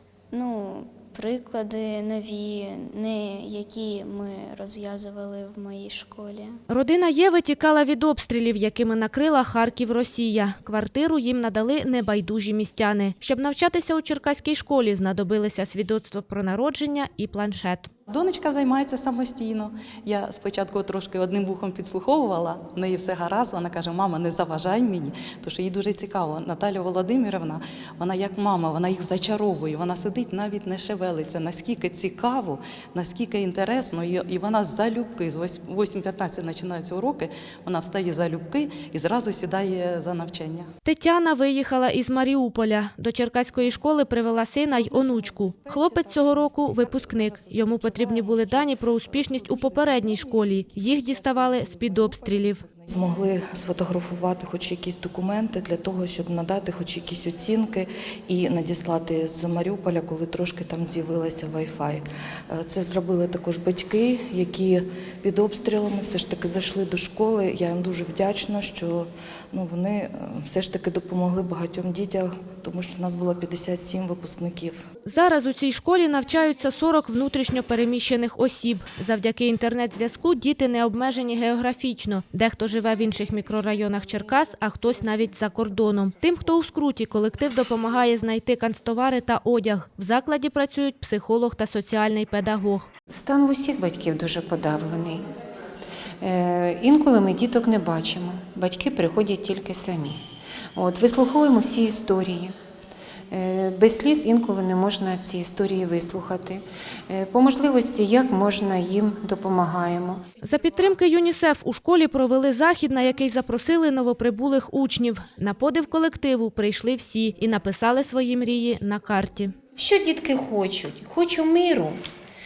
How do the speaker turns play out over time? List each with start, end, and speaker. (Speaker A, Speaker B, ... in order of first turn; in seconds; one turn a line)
Speaker A: 0.3-6.6
Speaker B: 6.7-17.9
Speaker C: 18.1-40.7
Speaker B: 40.8-52.6
Speaker D: 44.7-62.0
Speaker D: 62.5-74.8
Speaker B: 75.0-92.9
Speaker E: 93.1-95.2
Speaker E: 96.2-100.2
Speaker E: 100.8-102.5
Speaker E: 103.3-110.2
Speaker B: 110.4-119.5
Speaker E: 119.8-122.0